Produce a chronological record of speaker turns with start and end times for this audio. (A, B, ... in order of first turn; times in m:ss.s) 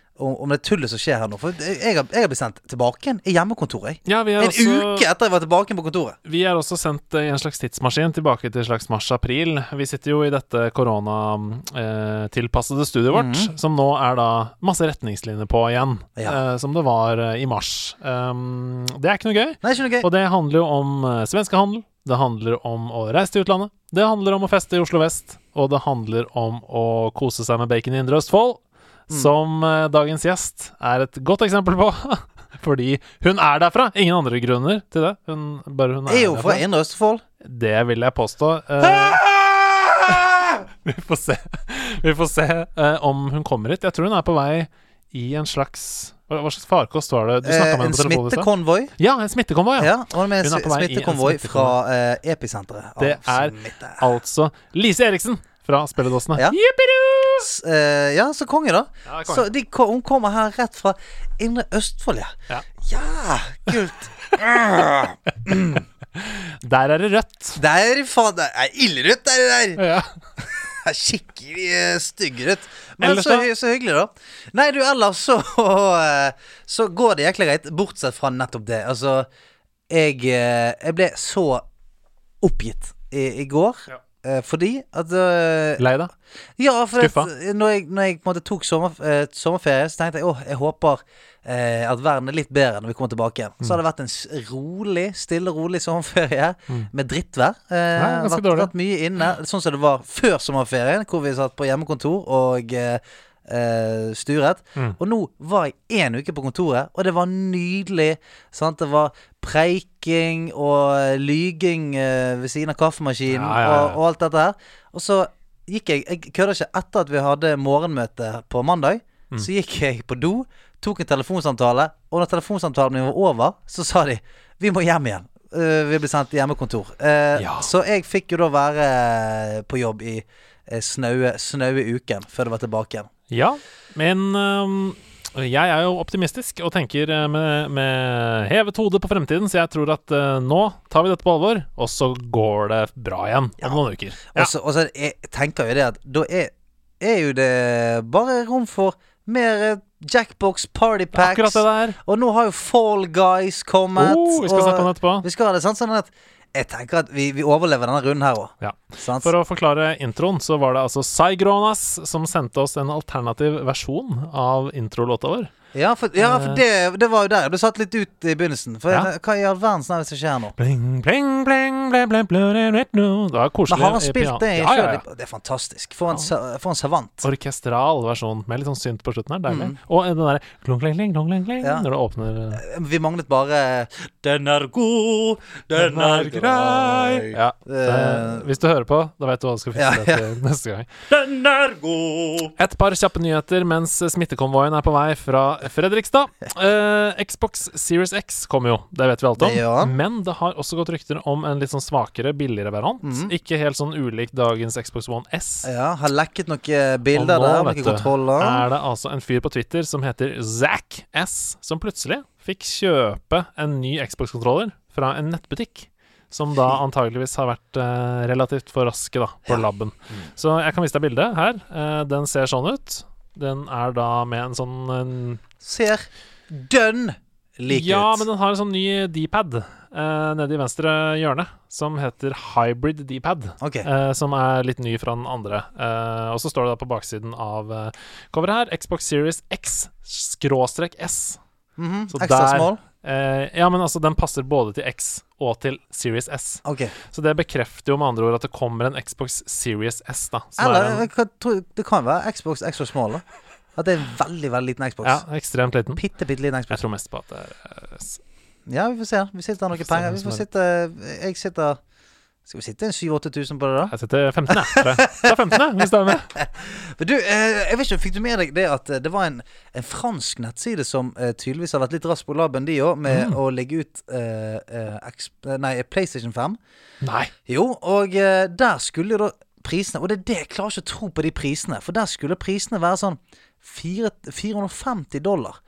0:00.2-0:06.2 A
0:04.1-0:05.1 B
0:06.2-0:36.6 B
0:13.1-0:13.5 A
0:19.6-0:20.1 A
0:36.1-0:37.2 A
0:37.4-0:51.8 B
0:47.4-0:48.9 A
0:49.8-0:54.0 A
0:53.0-0:57.5 B
0:57.4-1:05.8 A
0:59.1-0:59.5 B
1:06.2-1:07.6 B
1:07.6-1:09.8 A
1:09.8-1:10.1 B
1:10.7-1:19.3 A
1:13.0-1:13.5 B
1:19.9-1:21.6 A
1:22.4-1:25.8 A
1:25.8-1:26.1 B
1:26.6-2:13.1 A
1:27.0-1:27.3 B
1:38.0-1:38.7 B
1:53.3-1:54.0 B
2:07.4-2:07.7 B
2:13.3-2:24.5 B
2:24.3-2:39.3 A
2:31.1-2:32.0 B
2:34.0-2:35.3 B
2:38.6-2:45.5 B
2:45.7-2:50.6 A
2:46.2-2:46.6 B
2:50.6-2:55.0 B
2:53.7-2:57.3 A
2:57.2-3:02.6 B
2:59.5-2:59.8 A
3:01.6-3:01.9 A
3:02.5-3:08.5 A
3:05.7-3:10.9 B
3:09.8-3:10.2 A
3:11.1-3:12.6 A
3:12.6-3:25.7 B
3:19.4-3:20.0 A
3:23.0-3:23.3 A
3:25.6-3:28.6 A
3:27.1-3:45.4 B
3:45.6-3:48.3 A
3:47.7-4:01.4 B
3:53.6-3:53.9 A
4:01.8-4:02.8 A
4:02.1-4:11.1 B
4:06.6-4:06.9 A
4:10.6-4:13.2 A
4:13.8-4:15.2 A
4:15.0-4:16.0 B
4:16.0-4:16.8 A
4:16.7-4:18.2 B
4:18.7-4:21.8 A
4:19.8-4:20.4 B
4:22.5-4:23.9 A
4:23.9-4:26.3 B
4:24.5-4:25.4 A
4:26.4-4:36.6 A
4:33.1-4:33.4 B
4:37.0-4:37.3 B
4:37.5-4:45.6 A